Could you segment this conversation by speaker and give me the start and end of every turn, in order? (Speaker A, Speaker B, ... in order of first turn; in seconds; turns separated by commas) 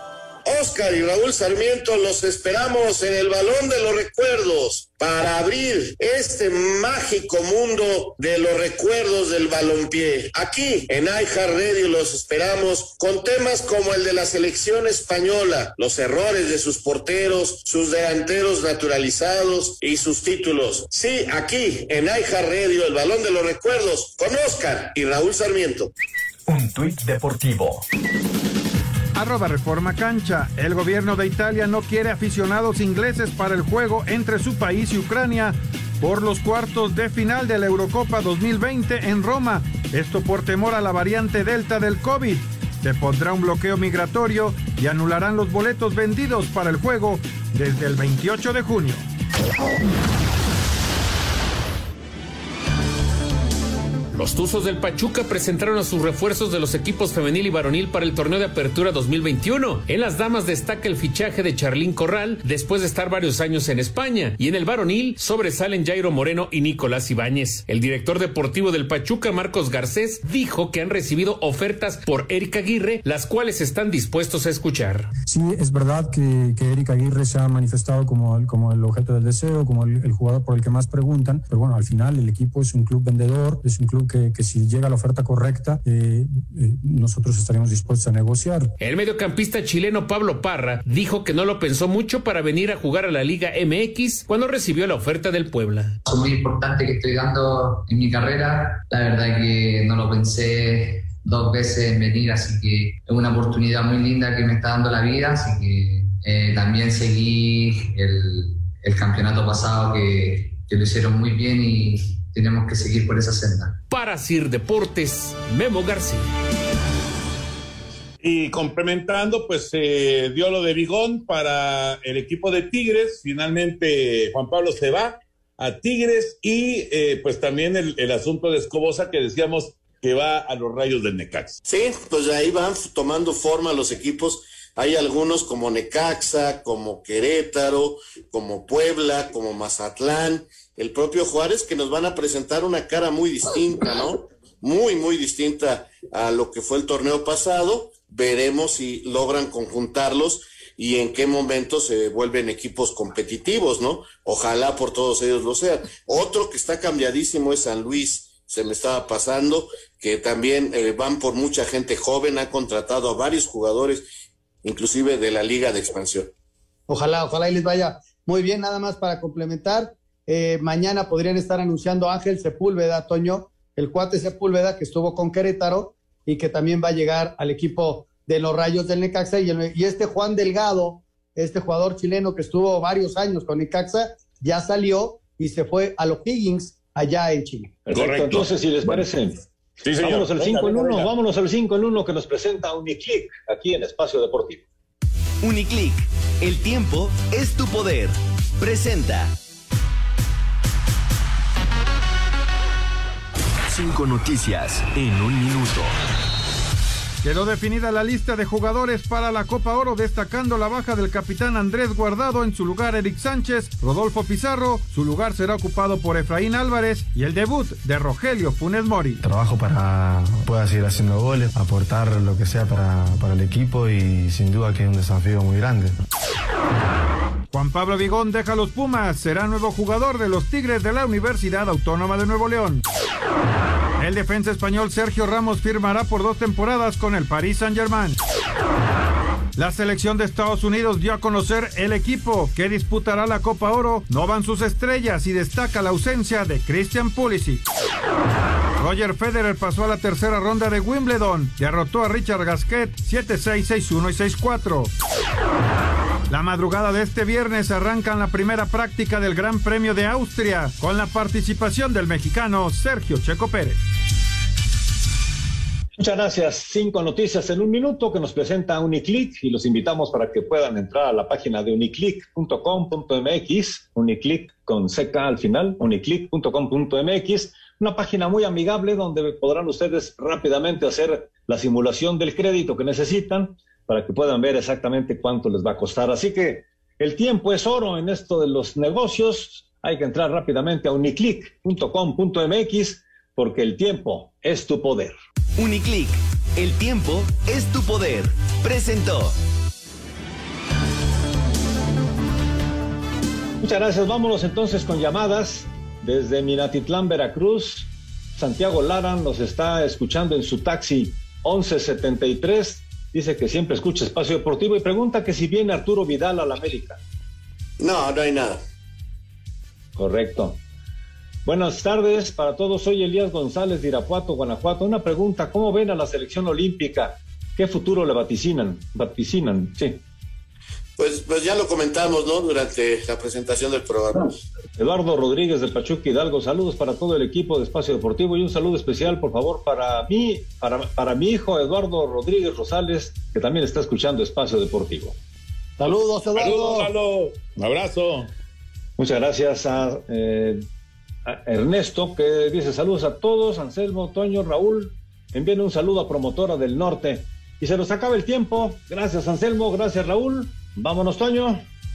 Speaker A: 0.5-25.9, Speaker B: 26.5-27.9, Speaker C: 29.1-49.1, Speaker D: 54.1-75.1, Speaker E: 75.3-88.7, Speaker D: 88.8-96.0, Speaker F: 96.1-113.8, Speaker D: 113.9-116.3, Speaker G: 118.2-131.6, Speaker A: 131.7-164.1, Speaker A: 164.6-166.3, Speaker H: 166.9-187.7, Speaker I: 187.9-189.4, Speaker G: 187.9-189.1, Speaker G: 189.8-191.1, Speaker I: 190.0-194.7, Speaker B: 195.4-199.3, Speaker B: 203.7-205.9, Speaker C: 207.2-219.2, Speaker J: 219.2-225.9, Speaker C: 227.5-232.8, Speaker C: 234.0-238.2, Speaker C: 239.6-247.6, Speaker C: 248.8-254.9, Speaker C: 256.3-263.8, Speaker I: 266.0-295.1, Speaker B: 295.6-299.4, Speaker I: 303.6-317.0, Speaker A: 317.8-318.6, Speaker I: 320.0-320.6, Speaker I: 321.4-330.0, Speaker A: 331.0-334.4, Speaker I: 334.8-345.2, Speaker H: 345.8-346.9, Speaker G: 346.3-348.3, Speaker I: 349.0-350.6, Speaker I: 351.3-361.6